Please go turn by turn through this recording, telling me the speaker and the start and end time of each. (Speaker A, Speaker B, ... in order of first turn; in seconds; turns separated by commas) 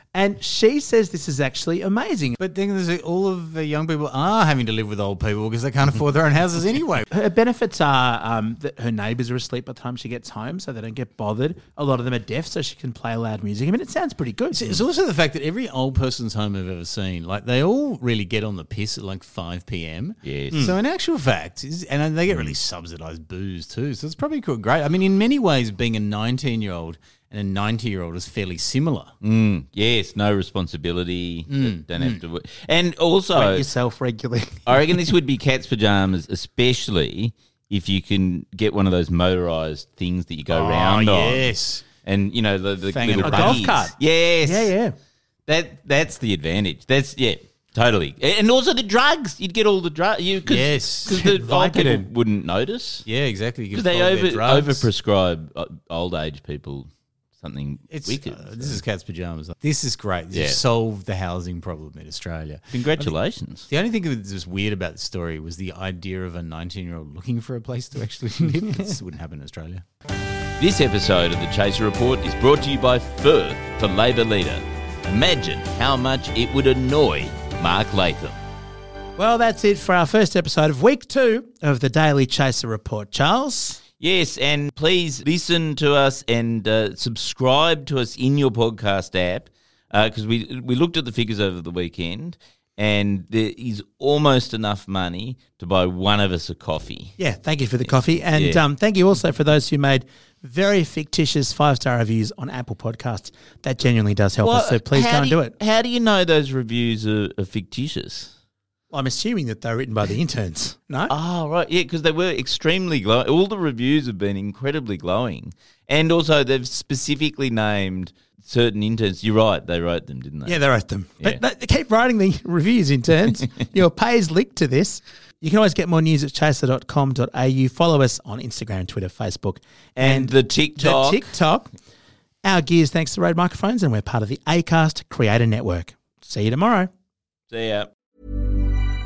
Speaker A: 0.1-2.4, Speaker B: 2.4-7.1, Speaker A: 7.1-14.8, Speaker B: 14.5-29.1, Speaker C: 20.2-20.7, Speaker C: 29.2-33.7, Speaker B: 31.5-32.2, Speaker A: 33.3-35.0, Speaker C: 34.7-41.5, Speaker B: 40.5-41.9, Speaker C: 42.0-44.7, Speaker B: 42.9-43.8, Speaker A: 43.2-45.0, Speaker C: 45.5-53.1, Speaker B: 50.5-51.2, Speaker A: 51.1-52.1, Speaker B: 53.1-54.9, Speaker C: 53.7-58.8, Speaker B: 57.9-63.1, Speaker C: 60.3-60.6, Speaker C: 62.7-63.7, Speaker B: 63.7-69.8, Speaker C: 70.6-78.4, Speaker A: 79.2-83.8, Speaker C: 84.0-97.2, Speaker A: 97.2-105.5, Speaker C: 98.3-98.6, Speaker C: 104.4-108.3, Speaker A: 108.9-111.1, Speaker C: 111.1-120.6, Speaker A: 120.5-131.7, Speaker C: 130.0-131.3, Speaker A: 132.4-136.9, Speaker C: 137.5-137.9